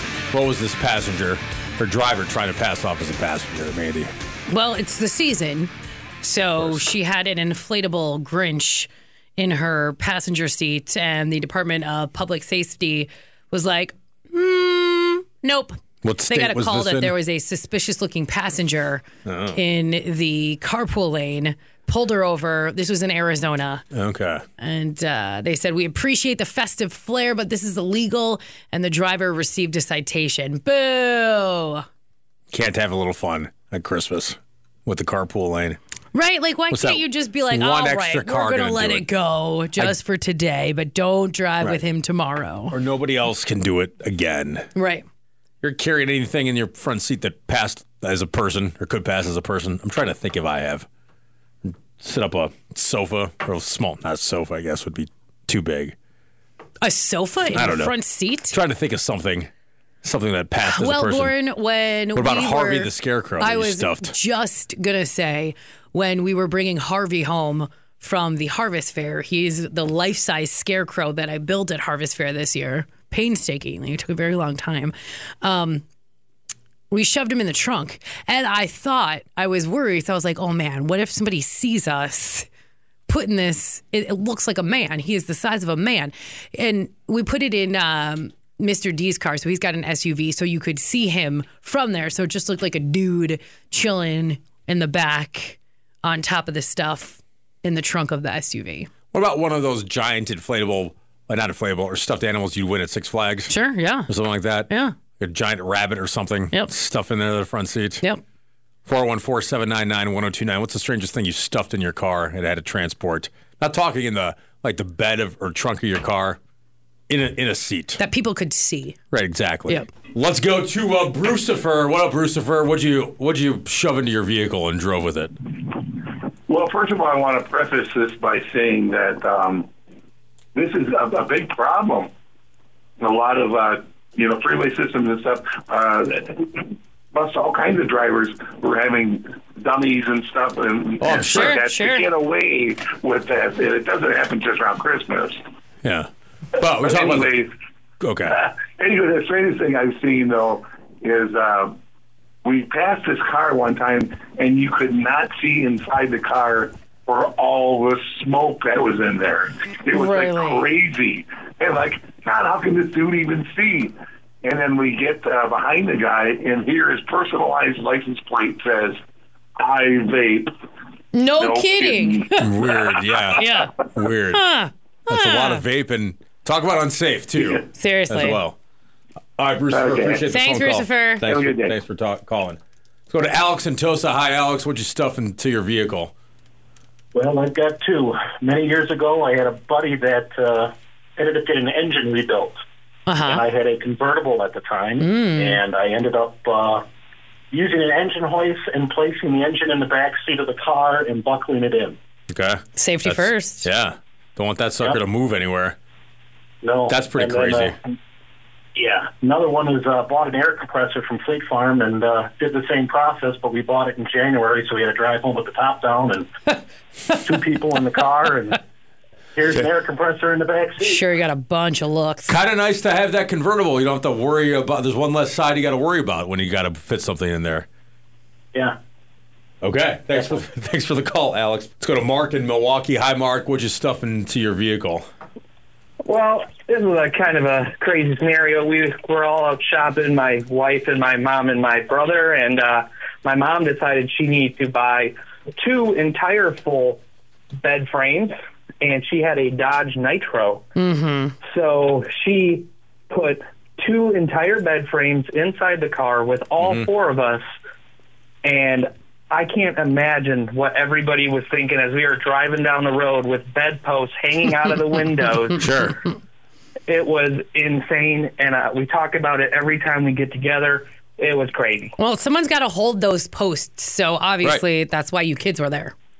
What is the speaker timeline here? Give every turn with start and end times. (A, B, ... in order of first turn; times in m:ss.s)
0:00.3-0:04.1 A
0:04.5-0:23.8 B
0:16.0-0:17.1 A
0:19.2-0:19.6 A
0:23.9-0:24.4 A
0:24.6-0:31.8 B
0:32.5-0:35.8 A
0:36.1-0:42.8 B
0:36.7-0:39.0 A
0:42.7-0:44.7 A
0:44.7-0:45.0 B
0:45.6-0:50.9 A
0:51.6-0:55.9 A
0:56.8-0:58.6 B
0:57.5-0:57.9 A
0:58.5-0:59.5 A
1:00.0-1:01.3 A
1:00.6-1:15.8 B
1:02.1-1:04.2 A
1:16.9-1:22.5 B
1:23.1-1:38.9 B
1:39.1-1:43.5 A
1:43.5-1:44.1 B
1:44.1-1:48.0 A
1:44.7-1:45.0 B
1:48.8-1:56.4 A
1:57.1-1:58.0 A
1:58.0-1:59.0 B
1:59.1-2:05.3 A
2:06.5-2:09.7 C
2:10.5-2:12.1 C
2:13.0-2:25.4 C
2:21.0-2:21.6 A
2:21.4-2:22.1 B
2:25.8-2:26.1 A
2:26.6-2:27.3 A
2:26.6-2:27.5 C
2:28.0-2:28.3 A
2:28.2-2:31.7 C
2:32.4-2:49.0 C
2:39.9-2:40.6 B
2:49.6-2:50.5 C
2:51.1-2:52.4 B
2:51.4-2:52.7 C
2:52.4-2:54.4 A
2:53.4-2:53.7 B
2:54.3-2:55.6 B
2:55.1-2:58.6 A
2:57.7-2:58.4 B
2:59.4-3:06.1 A
2:59.7-3:00.3 C
3:00.3-3:01.2 B
3:01.2-3:01.8 C
3:07.1-3:12.6 D
3:13.1-3:13.4 B
3:13.2-3:16.8 D
3:15.0-3:15.6 B
3:17.5-3:22.0 D
3:22.3-3:25.8 A
3:22.8-3:23.7 B
3:26.6-3:27.7 D
3:26.9-3:27.7 A
3:28.8-3:36.3 D
3:37.2-3:38.6 D
3:39.3-3:41.0 D
3:40.8-3:42.4 B
3:42.3-3:47.7 A
3:49.6-3:55.0 A
3:56.0-4:07.0 E
4:07.6-4:10.6 E
4:10.7-4:11.4 B
4:11.4-4:17.4 E
4:16.6-4:16.9 A
4:18.4-4:25.6 E
4:25.6-4:26.0 A
4:26.9-4:31.9 E
4:32.0-4:35.9 B